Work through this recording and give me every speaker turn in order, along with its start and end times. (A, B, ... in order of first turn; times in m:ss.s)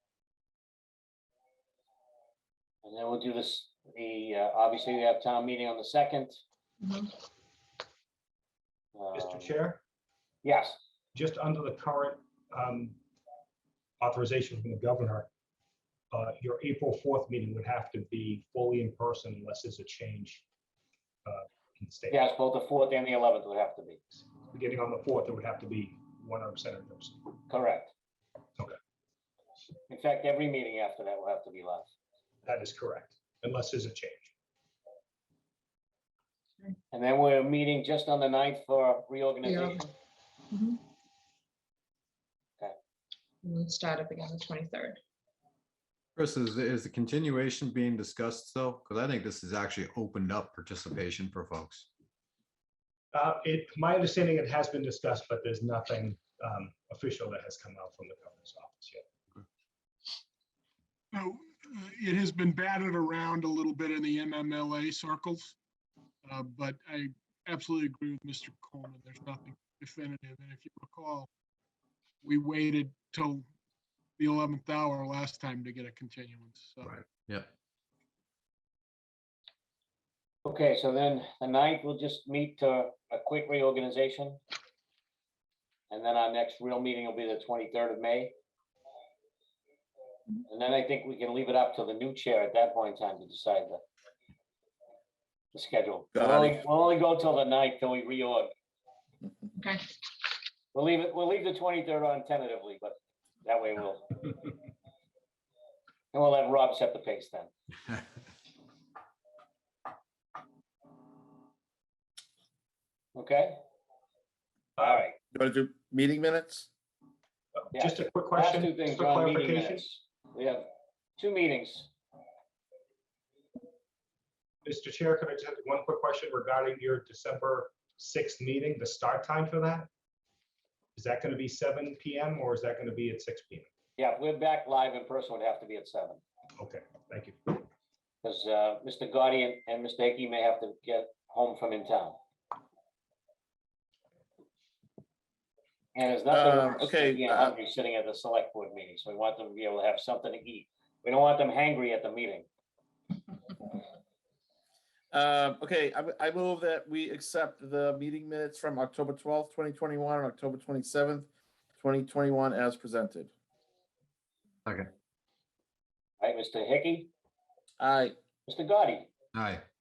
0:02.8-0:06.4 A
0:06.8-0:07.1 B
0:09.0-0:09.5 A
0:09.2-0:09.8 C
0:10.4-0:10.8 A
0:11.1-0:13.0 C
0:14.0-0:15.3 C
0:16.1-0:20.4 C
0:21.2-0:22.2 C
0:22.1-0:24.0 A
0:24.5-0:27.2 C
0:27.5-0:27.9 A
0:29.9-0:31.9 A
0:32.4-0:34.3 C
0:36.9-0:39.9 A
0:39.4-0:39.9 B
0:40.5-0:40.8 B
0:43.4-0:45.0 B
0:46.2-0:51.9 D
0:53.1-0:59.0 C
1:01.1-1:05.6 E
1:06.2-1:11.3 E
1:12.2-1:13.5 E
1:14.2-1:17.0 E
1:16.8-1:17.5 D
1:20.4-1:24.4 A
1:25.9-1:28.3 A
1:30.5-1:33.8 A
1:35.5-1:38.5 A
1:36.2-1:36.6 F
1:39.6-1:39.8 B
1:40.7-1:44.2 A
1:46.1-1:47.5 A
1:53.1-1:53.6 A
1:54.8-1:55.2 A
1:55.3-1:56.7 F
1:57.6-1:59.8 C
1:57.7-2:01.9 A
2:04.6-2:09.9 C
2:11.0-2:13.7 C
2:14.0-2:16.2 A
2:16.6-2:17.6 C
2:18.2-2:22.2 A
2:26.0-2:32.5 A
2:26.3-2:27.5 F
2:35.1-2:41.3 F
2:41.8-2:43.3 F
2:46.2-2:47.1 A
2:47.8-2:48.2 F
2:48.5-2:49.1 A
2:49.3-2:49.6 D